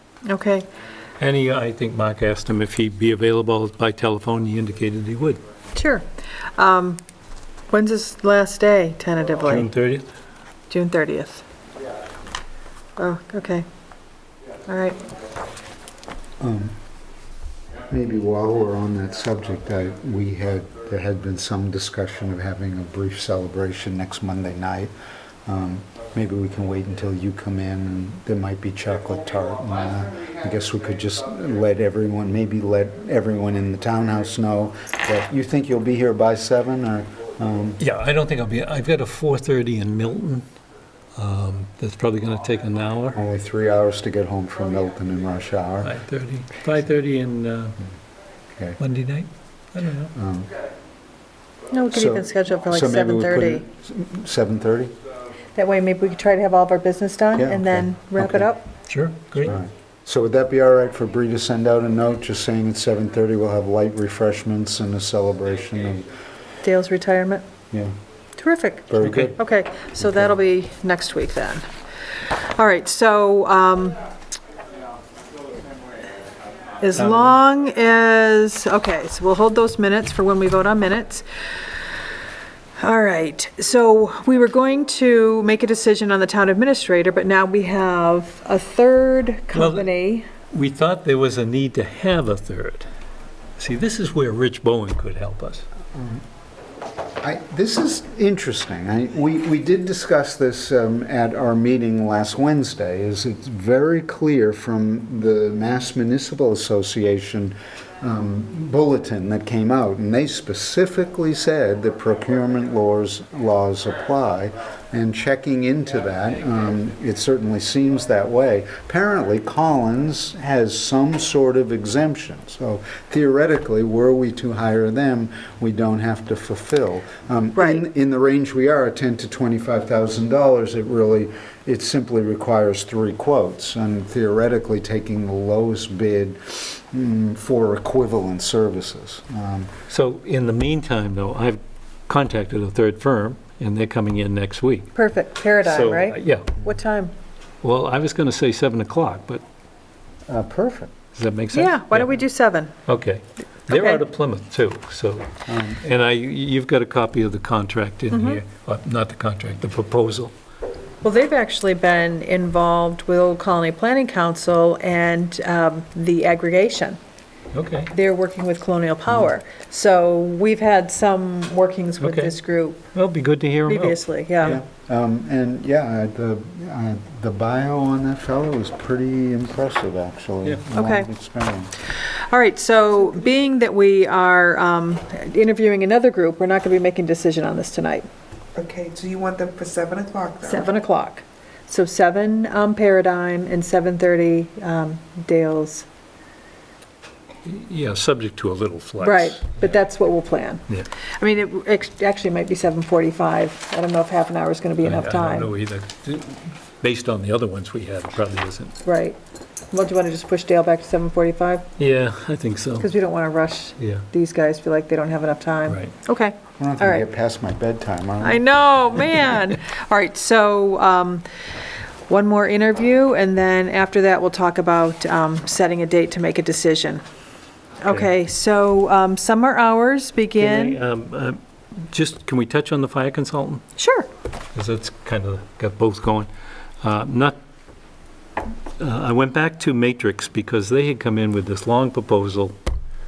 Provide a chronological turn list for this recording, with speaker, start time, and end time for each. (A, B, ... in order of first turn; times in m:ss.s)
0:00.3-0:00.7 A
0:01.2-0:05.4 B
0:05.7-0:07.0 A
0:07.7-0:09.7 A
0:09.4-0:10.1 B
0:10.7-0:11.4 A
0:13.0-0:13.6 A
0:14.7-0:15.0 A
0:16.4-0:16.7 C
0:17.9-0:24.9 C
0:25.4-0:37.8 C
0:37.8-0:40.5 B
0:41.2-0:43.2 B
0:43.1-0:45.9 C
0:45.8-0:47.8 B
0:48.5-0:48.8 C
0:48.8-0:50.1 B
0:50.1-0:50.5 C
0:51.7-0:53.6 A
0:51.9-0:54.9 C
0:55.5-0:58.7 A
0:57.4-0:58.5 C
0:58.9-0:59.6 B
0:59.4-1:06.1 C
1:06.6-1:07.4 A
1:08.4-1:11.6 A
1:08.9-1:09.4 C
1:09.0-1:09.3 B
1:10.0-1:10.3 C
1:12.5-1:14.0 A
1:16.8-1:21.2 A
1:22.8-1:30.2 A
1:29.5-1:29.9 B
1:30.5-1:32.9 B
1:33.6-1:35.6 B
1:35.9-1:36.2 C
1:37.2-2:19.7 C
2:07.5-2:07.8 A
2:19.9-2:24.9 B
2:24.9-2:27.1 A
2:25.6-2:26.5 B
2:27.6-2:29.4 B
2:30.3-2:30.9 C
2:31.1-2:32.1 B
2:31.5-2:32.7 A
2:32.8-2:40.3 B
2:35.5-2:35.8 C
2:38.1-2:38.4 A
2:41.0-2:47.0 A
2:47.5-2:47.9 B
2:47.9-2:52.9 A
2:52.0-2:52.3 B
2:52.9-2:54.6 B
2:53.7-2:54.6 A
2:54.4-3:01.7 C
3:00.7-3:01.1 A
3:02.3-3:08.1 A
3:08.5-3:10.7 D
3:10.4-3:15.8 A
3:17.4-3:19.7 B
3:19.0-3:20.6 A
3:21.2-3:25.5 A
3:24.8-3:28.8 B
3:28.8-3:29.2 A
3:29.7-3:31.6 A
3:31.8-3:32.9 B
3:32.8-3:37.0 A
3:33.8-3:34.0 B
3:35.7-3:35.9 B
3:36.6-3:38.4 C
3:38.2-3:41.2 A
3:42.1-3:47.0 A
3:47.8-3:50.8 A
3:50.4-3:53.6 B
3:53.8-3:54.1 A
3:54.5-3:56.3 B
3:56.8-3:57.4 B
3:58.8-4:02.6 B